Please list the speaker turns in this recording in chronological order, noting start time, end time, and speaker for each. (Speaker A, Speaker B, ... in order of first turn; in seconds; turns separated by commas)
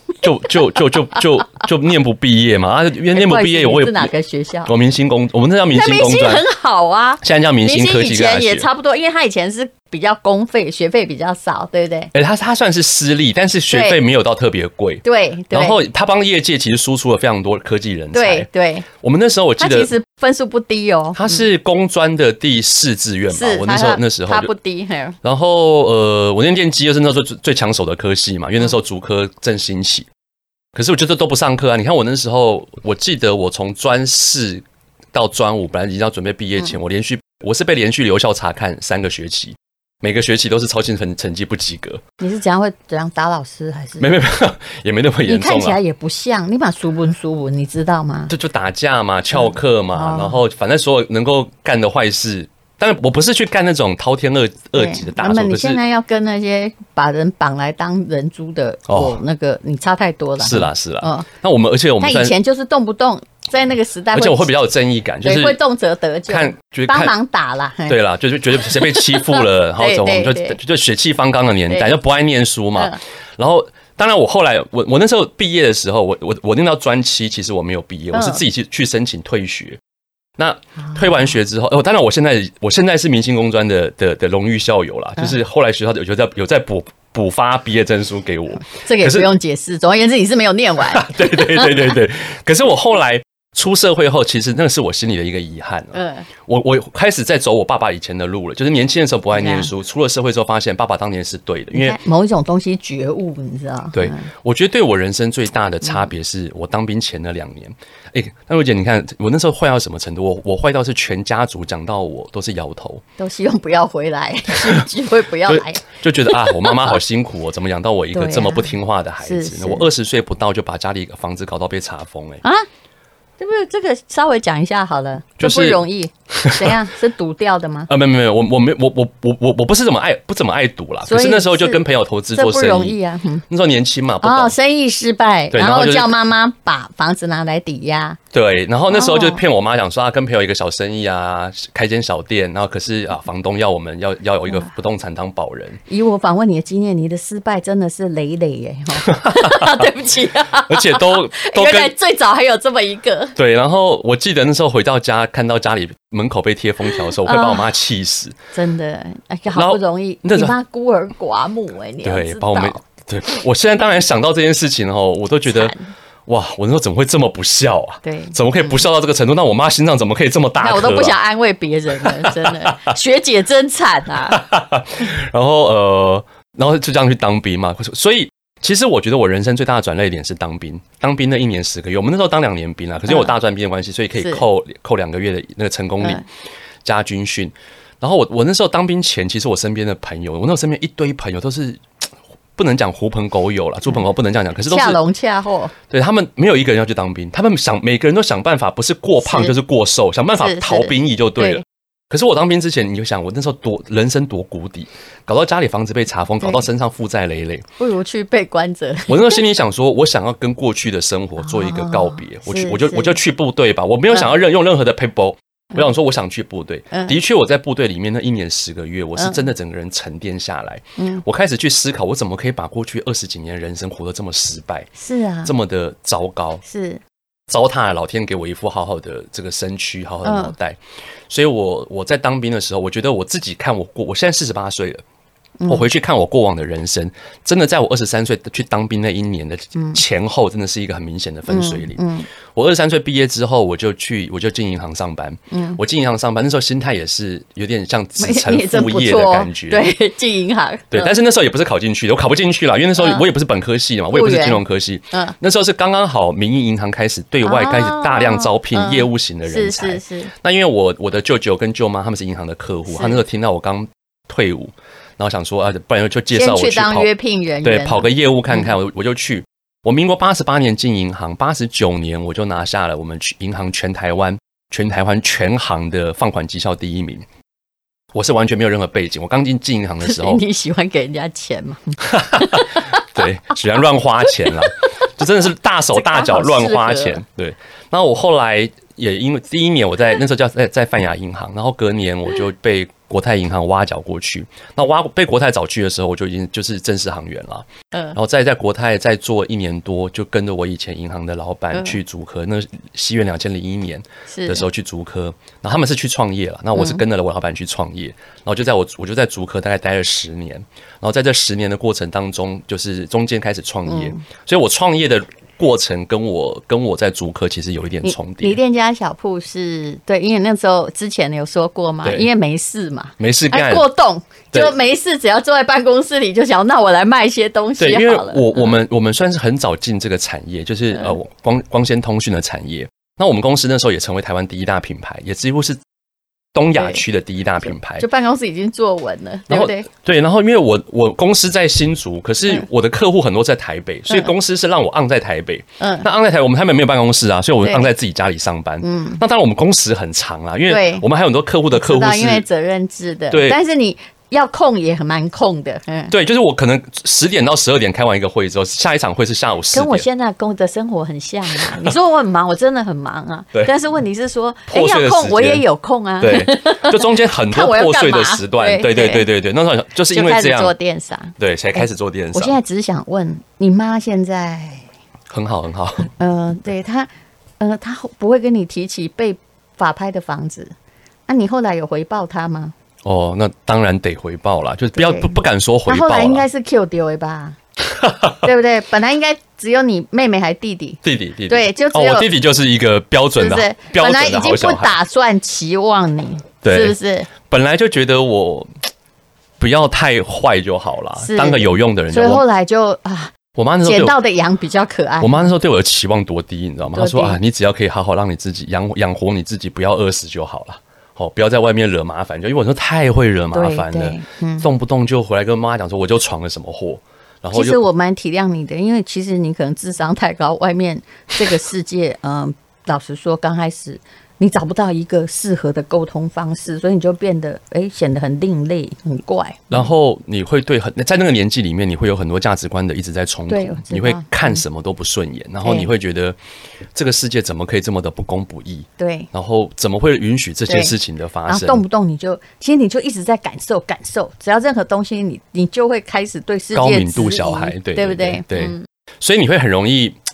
Speaker A: 0.2-4.1, Speaker B: 3.1-4.7, Speaker A: 4.7-6.5, Speaker B: 5.7-12.1, Speaker A: 7.2-8.7, Speaker A: 12.1-19.9, Speaker B: 13.7-14.0, Speaker B: 15.0-15.8, Speaker B: 18.1-18.9, Speaker B: 19.6-21.4, Speaker A: 21.1-24.5, Speaker B: 23.3-25.2, Speaker A: 25.2-30.1, Speaker A: 30.8-42.0, Speaker B: 42.2-44.2, Speaker A: 44.0-45.8, Speaker B: 45.3-48.3, Speaker A: 48.3-55.8, Speaker B: 49.3-50.4, Speaker B: 54.8-61.3, Speaker A: 58.9-59.2, Speaker A: 60.4-62.4, Speaker B: 62.0-64.5, Speaker A: 64.1-65.6, Speaker B: 65.2-68.0, Speaker A: 66.3-67.2, Speaker A: 67.9-79.8, Speaker B: 68.6-70.6, Speaker B: 71.7-72.0, Speaker B: 78.1-78.4, Speaker A: 80.4-89.3, Speaker B: 88.7-92.0, Speaker A: 90.8-102.0, Speaker B: 95.9-96.3, Speaker B: 99.3-99.7, Speaker B: 101.7-104.3, Speaker A: 103.9-113.0, Speaker B: 113.2-117.0, Speaker A: 114.6-114.8, Speaker A: 115.5-122.4, Speaker B: 118.1-119.9, Speaker B: 123.4-127.9, Speaker A: 125.4-126.8, Speaker A: 127.9-133.0, Speaker B: 131.1-131.8, Speaker B: 132.3-133.4, Speaker A: 133.5-134.6, Speaker B: 134.2-138.2, Speaker A: 135.5-136.2, Speaker A: 138.3-145.8, Speaker B: 138.9-139.4, Speaker B: 145.9-153.4, Speaker A: 149.0-149.9, Speaker A: 150.7-151.9, Speaker A: 153.4-158.4, Speaker B: 156.8-157.7, Speaker B: 158.5-162.8, Speaker A: 159.5-160.6, Speaker A: 162.0-165.7, Speaker B: 165.5-165.9, Speaker A: 166.3-171.2, Speaker B: 168.0-168.8, Speaker B: 170.6-174.4, Speaker A: 172.0-172.9, Speaker A: 174.3-186.2, Speaker B: 184.2-184.4, Speaker A: 186.8-191.8, Speaker A: 192.6-195.0, Speaker B: 194.7-195.7, Speaker A: 195.9-207.7, Speaker B: 199.2-199.5, Speaker B: 200.4-201.6, Speaker B: 207.8-209.4, Speaker A: 209.1-224.9, Speaker B: 211.4-213.2, Speaker B: 216.9-217.2, Speaker B: 219.2-219.5, Speaker B: 221.0-221.2, Speaker B: 225.0-225.5, Speaker A: 225.4-226.6, Speaker B: 226.7-227.0, Speaker A: 227.5-235.0, Speaker B: 230.2-230.6, Speaker B: 235.6-235.9, Speaker A: 235.7-242.0, Speaker B: 239.8-240.0, Speaker B: 241.5-242.3, Speaker A: 242.5-249.9, Speaker B: 245.5-245.8, Speaker B: 248.2-251.1, Speaker A: 250.9-267.1, Speaker B: 253.0-253.3, Speaker B: 254.1-255.3, Speaker B: 257.4-260.3, Speaker B: 262.9-263.2, Speaker B: 266.3-268.7, Speaker A: 267.6-277.2, Speaker A: 278.1-280.4, Speaker B: 280.0-283.1, Speaker A: 282.1-318.6, Speaker B: 284.3-285.1, Speaker B: 285.9-287.2, Speaker B: 304.3-304.6, Speaker B: 306.8-307.0, Speaker B: 313.9-314.2, Speaker B: 318.0-328.8, Speaker A: 323.2-323.9, Speaker A: 327.8-335.8, Speaker A: 336.5-338.1, Speaker B: 336.8-337.0, Speaker B: 337.9-339.9, Speaker A: 339.5-352.5, Speaker B: 345.8-346.1, Speaker B: 347.6-347.9, Speaker B: 348.8-349.2, Speaker B: 350.7-351.1, Speaker B: 351.7-356.1, Speaker A: 353.3-353.6, Speaker A: 356.1-360.1, Speaker B: 359.7-369.3, Speaker A: 361.6-361.9, Speaker A: 364.7-365.6, Speaker A: 366.2-370.7, Speaker B: 370.1-374.9, Speaker A: 371.4-372.6, Speaker A: 375.3-376.1, Speaker B: 376.1-380.7, Speaker B: 381.3-382.7, Speaker A: 383.0-386.4, Speaker B: 384.9-387.6, Speaker A: 387.9-388.5, Speaker B: 388.4-392.3, Speaker A: 391.0-395.0, Speaker B: 393.4-397.3, Speaker A: 396.6-398.7, Speaker A: 399.6-402.4, Speaker B: 401.2-405.5, Speaker A: 403.6-404.2, Speaker A: 405.2-417.8, Speaker B: 406.9-407.4, Speaker B: 413.5-414.7, Speaker B: 417.5-429.9, Speaker A: 429.7-436.4, Speaker B: 433.5-434.6, Speaker B: 435.6-435.9, Speaker A: 436.9-441.8, Speaker B: 439.0-439.3, Speaker B: 440.7-440.9, Speaker B: 441.5-448.9, Speaker A: 446.7-450.2